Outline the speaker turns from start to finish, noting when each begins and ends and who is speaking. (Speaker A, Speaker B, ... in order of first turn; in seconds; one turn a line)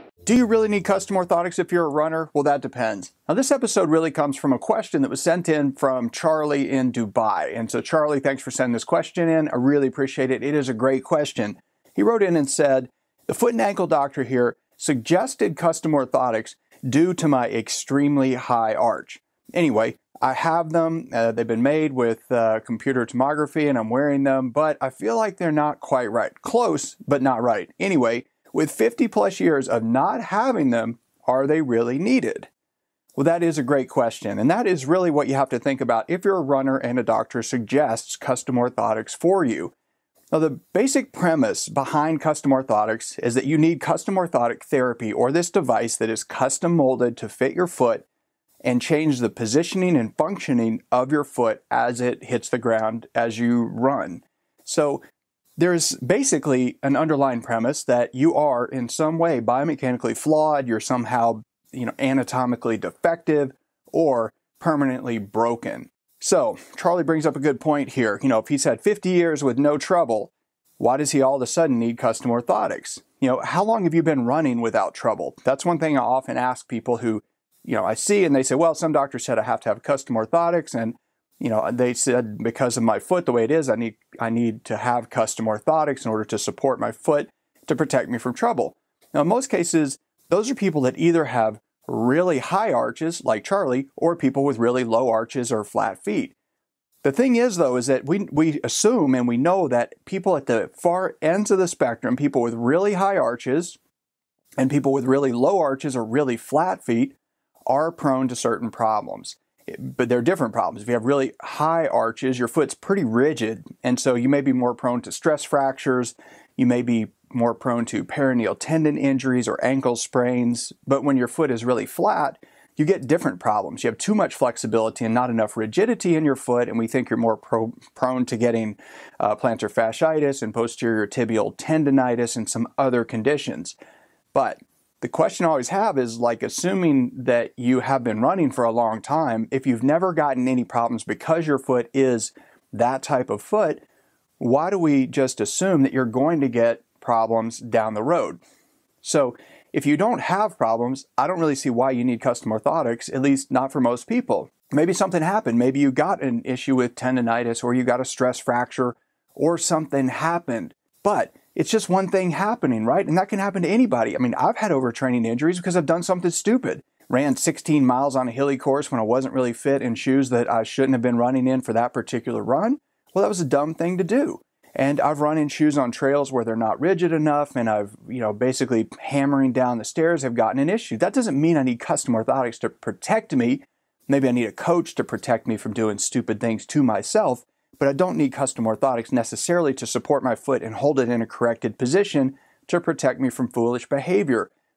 Speaker A: 0.2-32.5
Speaker A: 33.2-39.7
Speaker A: 40.3-48.1
Speaker A: 48.6-55.0
Speaker A: 55.6-96.3
Speaker A: 97.0-103.8
Speaker A: 104.6-133.8
Speaker A: 134.3-143.8
Speaker A: 144.4-148.4
Speaker A: 149.0-194.5